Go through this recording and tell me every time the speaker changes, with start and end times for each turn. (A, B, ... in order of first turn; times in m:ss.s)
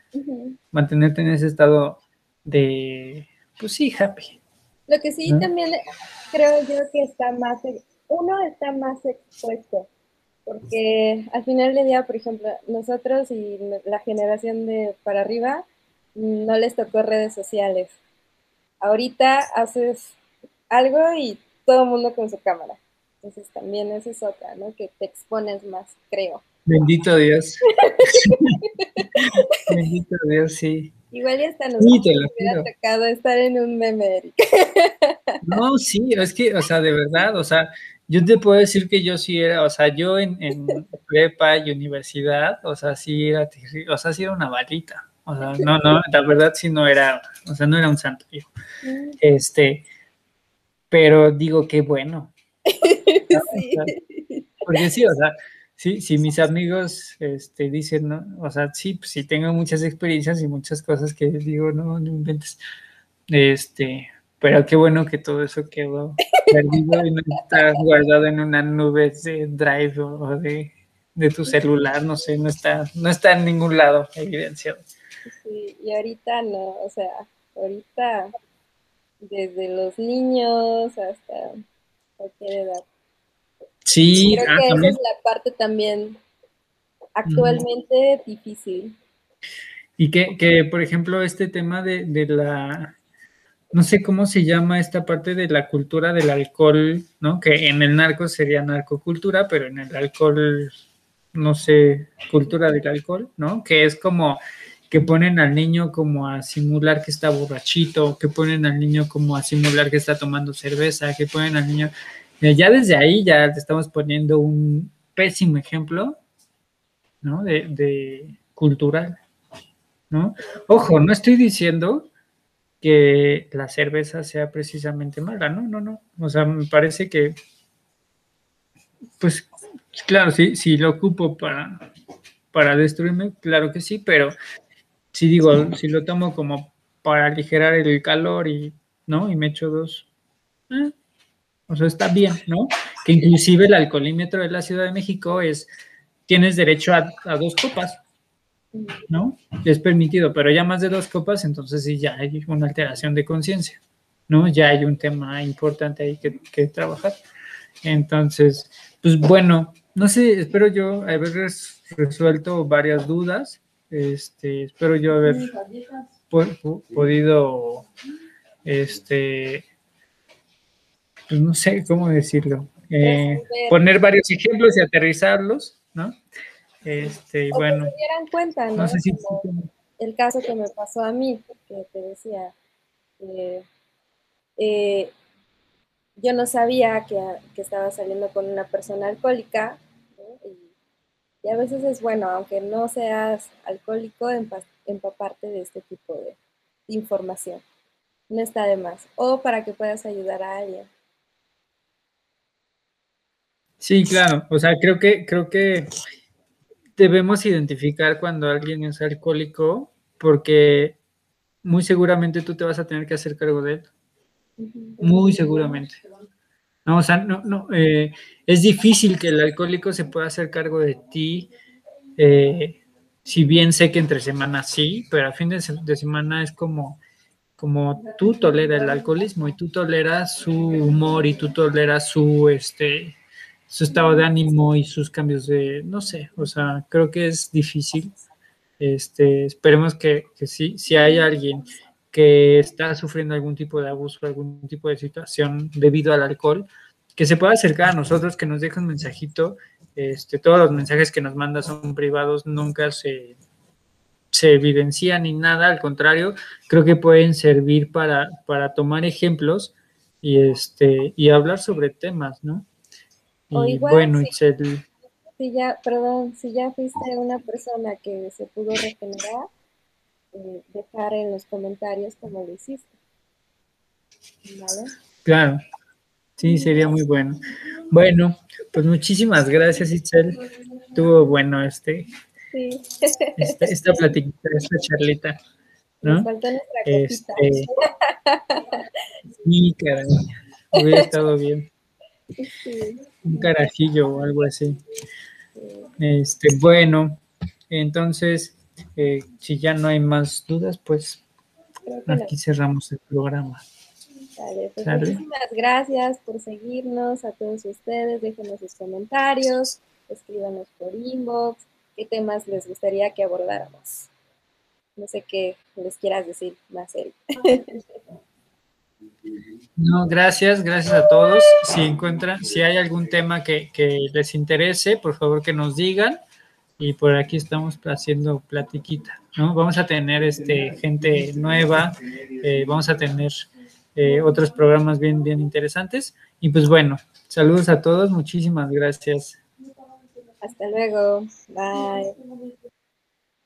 0:00.2-0:00.6 A
0:00.7-0:04.4 B
0:04.9-0:05.8 A
0:06.3-0:09.9 A
0:10.5-0:15.6 A
0:16.2-0:18.0 A
0:18.8-0:20.2 A
0:20.7-0:26.4 A
0:26.7-0:28.4 B
0:27.9-0:29.3 A
0:29.7-0:30.9 B
0:31.1-0:35.3 A
0:31.8-0:32.7 B
0:35.4-0:48.5 B
0:48.8-0:49.2 A
0:49.2-0:49.9 B
0:50.9-0:52.3 B
0:52.7-0:54.8 A
0:53.3-0:53.9 B
0:54.7-1:02.6 B
1:03.3-1:14.9 B
1:06.4-1:07.7 A
1:15.3-1:18.3 A
1:19.2-1:21.5 A
1:22.2-1:22.9 A
1:23.9-1:25.0 B
1:24.2-1:26.2 A
1:27.2-1:29.0 A
1:27.3-1:27.6 B
1:30.0-1:33.0 B
1:33.7-1:40.7 B
1:41.3-1:56.2 B
1:57.2-1:59.2 B
2:00.1-2:02.1 B
2:02.8-2:07.4 B
2:09.2-2:11.8 B
2:12.5-2:14.4 B
2:15.1-2:20.1 B
2:21.7-2:25.7 B
2:26.3-2:28.0 B
2:28.7-2:29.1 A
2:29.1-2:37.2 B
2:37.8-2:45.5 B
2:45.2-2:45.5 A
2:46.3-2:47.8 B
2:48.6-2:49.6 B
2:51.3-2:56.2 B
2:53.0-2:53.8 A
2:56.8-2:57.9 B
2:57.5-2:59.5 A
2:58.8-2:59.7 B
3:00.0-3:02.6 A
3:03.2-3:03.6 A
3:04.6-3:05.1 A
3:06.2-3:10.7 A
3:11.4-3:17.6 A
3:18.3-3:20.9 A
3:23.8-3:25.9 B
3:27.0-3:31.0 B
3:31.6-3:33.9 B
3:34.6-3:35.5 A
3:35.0-3:36.0 B
3:36.8-3:41.5 B
3:42.2-3:47.0 B
3:47.6-3:53.2 B
3:53.7-3:58.1 B
3:58.8-4:13.4 B
4:14.3-4:22.7 B
4:23.5-4:24.8 B
4:23.5-4:24.3 A
4:25.4-4:29.5 A
4:30.3-4:32.9 A
4:34.4-4:34.9 A
4:35.2-4:35.6 B
4:36.4-4:37.4 B
4:37.9-4:40.4 B
4:40.9-4:42.1 B
4:42.5-4:44.0 A
4:43.4-4:45.4 B
4:46.0-4:48.8 A
4:46.0-4:46.3 B
4:46.9-4:47.7 B
4:49.4-4:50.1 B
4:50.7-4:51.7 B
4:52.4-4:53.1 A
4:53.2-4:54.8 B
4:55.6-4:55.9 A
4:56.0-4:57.2 B
4:57.7-5:01.2 B
5:01.9-5:02.3 A
5:02.1-5:03.6 B
5:04.4-5:14.1 A
5:04.8-5:05.2 B
5:15.0-5:17.8 A
5:19.8-5:26.2 B
5:26.8-5:39.4 B
5:40.4-5:42.2 A